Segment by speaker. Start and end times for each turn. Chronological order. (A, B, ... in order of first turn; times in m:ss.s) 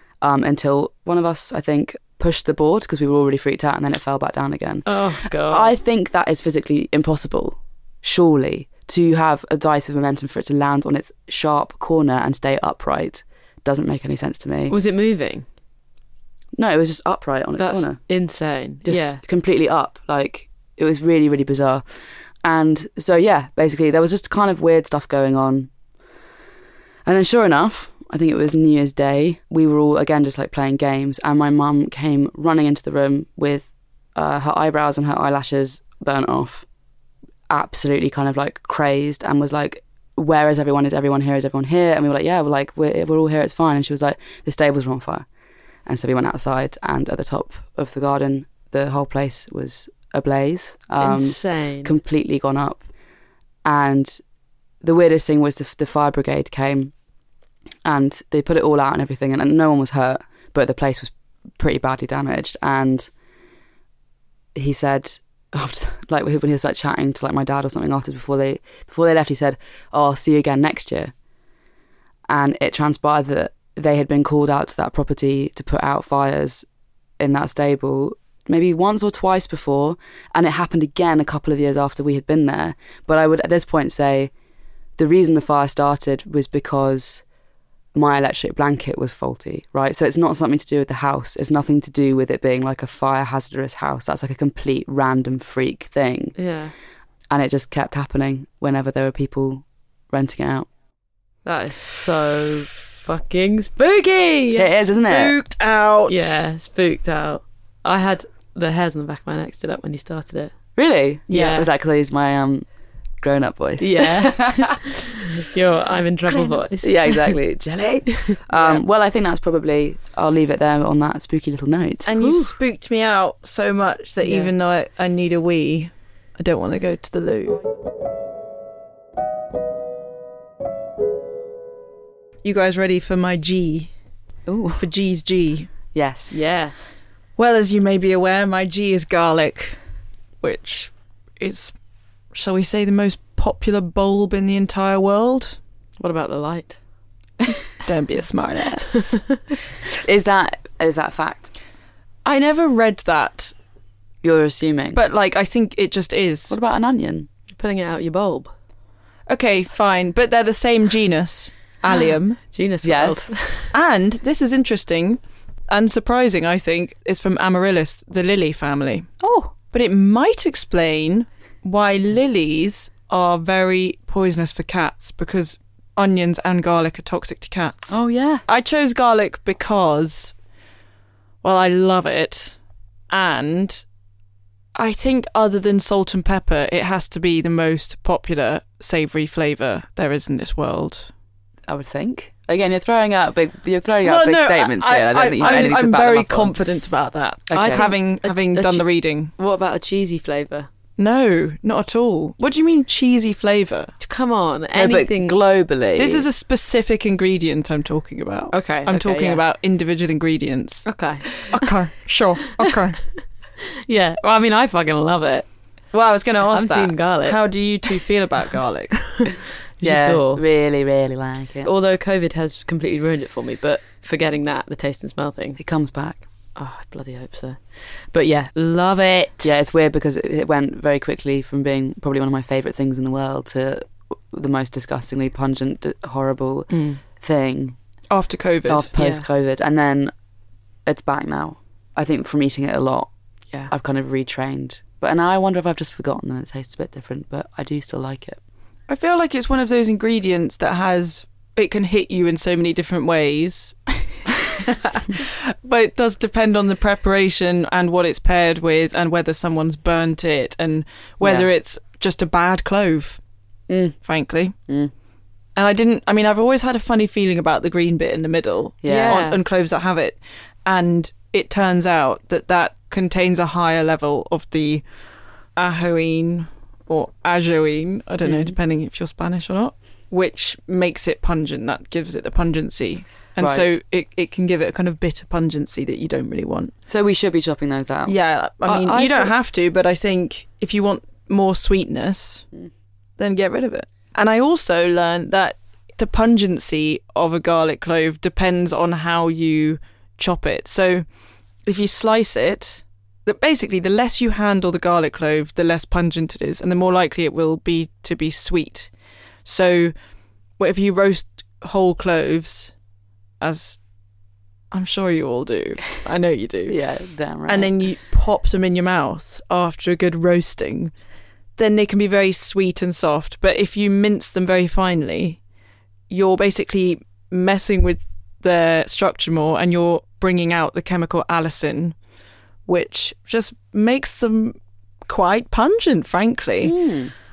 0:00.2-0:04.9 A
0:04.8-0:05.7 B
0:05.4-0:14.7 A
0:14.7-0:15.4 B
0:16.6-0:18.0 A
0:17.6-0:19.2 B
0:18.8-0:21.8 A
0:22.4-0:25.7 A
0:27.0-0:36.6 A
0:37.5-0:45.2 A
0:45.8-0:52.8 A
0:51.0-0:51.9 B
0:53.6-0:54.2 A
0:54.8-0:56.9 A
0:57.8-1:03.1 A
1:04.5-1:11.1 A
1:12.3-1:16.6 A
1:17.2-1:24.3 A
1:25.0-1:27.2 A
1:27.9-1:36.4 A
1:36.4-1:36.7 B
1:37.3-1:40.7 A
1:41.4-1:44.7 B
1:44.6-1:46.4 C
1:44.6-1:45.3 A
1:46.1-1:50.5 B
1:50.8-1:52.6 A
1:51.3-1:51.6 C
1:51.3-1:51.7 B
1:53.2-1:54.8 A
1:53.8-1:57.4 B
1:56.8-2:02.2 A
1:58.5-1:58.8 C
2:02.0-2:07.6 C
2:02.1-2:02.5 B
2:12.4-2:13.9 C
2:14.5-2:14.8 A
2:14.8-2:15.7 C
2:15.9-2:16.4 A
2:16.3-2:16.7 B
2:17.4-2:19.8 C
2:20.4-2:21.7 C
2:22.3-2:25.6 C
2:26.0-2:26.8 B
2:27.8-2:29.2 C
2:28.9-2:29.4 B
2:30.0-2:31.5 A
2:32.2-2:33.5 C
2:34.2-2:35.0 A
2:34.9-2:36.6 C
2:36.5-2:37.3 A
2:37.6-2:38.5 B
2:39.3-2:42.4 C
2:42.5-2:43.7 B
2:42.8-2:43.3 A
2:43.7-2:49.1 C
2:49.2-2:49.5 A
2:49.7-2:57.9 C
2:57.9-2:58.4 A
2:58.5-3:00.3 C
3:01.4-3:02.6 C
3:03.1-3:03.8 C
3:04.8-3:11.1 C
3:11.7-3:16.5 A
3:14.0-3:19.3 C
3:15.4-3:15.8 B
3:17.5-3:17.8 A
3:17.5-3:18.8 B
3:19.4-3:20.7 B
3:21.0-3:23.9 C
3:24.0-3:25.3 B
3:24.7-3:26.2 A
3:26.0-3:33.0 C
3:28.5-3:29.4 B
3:30.8-3:31.6 B
3:33.9-3:35.5 B
3:35.9-3:39.3 C
3:36.5-3:37.4 B
3:39.8-3:40.4 B
3:39.8-3:41.7 A
3:41.6-3:45.6 B
3:45.6-3:46.2 A
3:46.6-3:49.5 B
3:49.4-3:57.8 A
3:56.7-3:57.0 B
3:58.1-3:58.9 C
3:58.7-4:00.1 A
3:59.0-3:59.2 B
4:00.8-4:03.1 A
4:03.7-4:08.4 A
4:08.9-4:23.2 C
4:21.2-4:21.5 A
4:23.7-4:24.0 A
4:24.0-4:24.5 C
4:25.6-4:34.8 C
4:28.8-4:29.2 A
4:28.8-4:29.4 B
4:35.6-4:46.7 C
4:38.2-4:38.6 A
4:43.4-4:43.8 A
4:46.9-4:48.1 A
4:48.0-4:52.4 C
4:48.6-4:49.3 B
4:53.2-5:01.0 C
5:01.6-5:08.9 C
5:09.4-5:09.9 C
5:10.6-5:12.7 C
5:13.4-5:13.8 C
5:14.7-5:16.8 C
5:16.7-5:17.7 A
5:17.5-5:20.9 C
5:21.6-5:25.4 C
5:26.1-5:32.0 C
5:32.7-5:36.8 C
5:36.6-5:37.1 A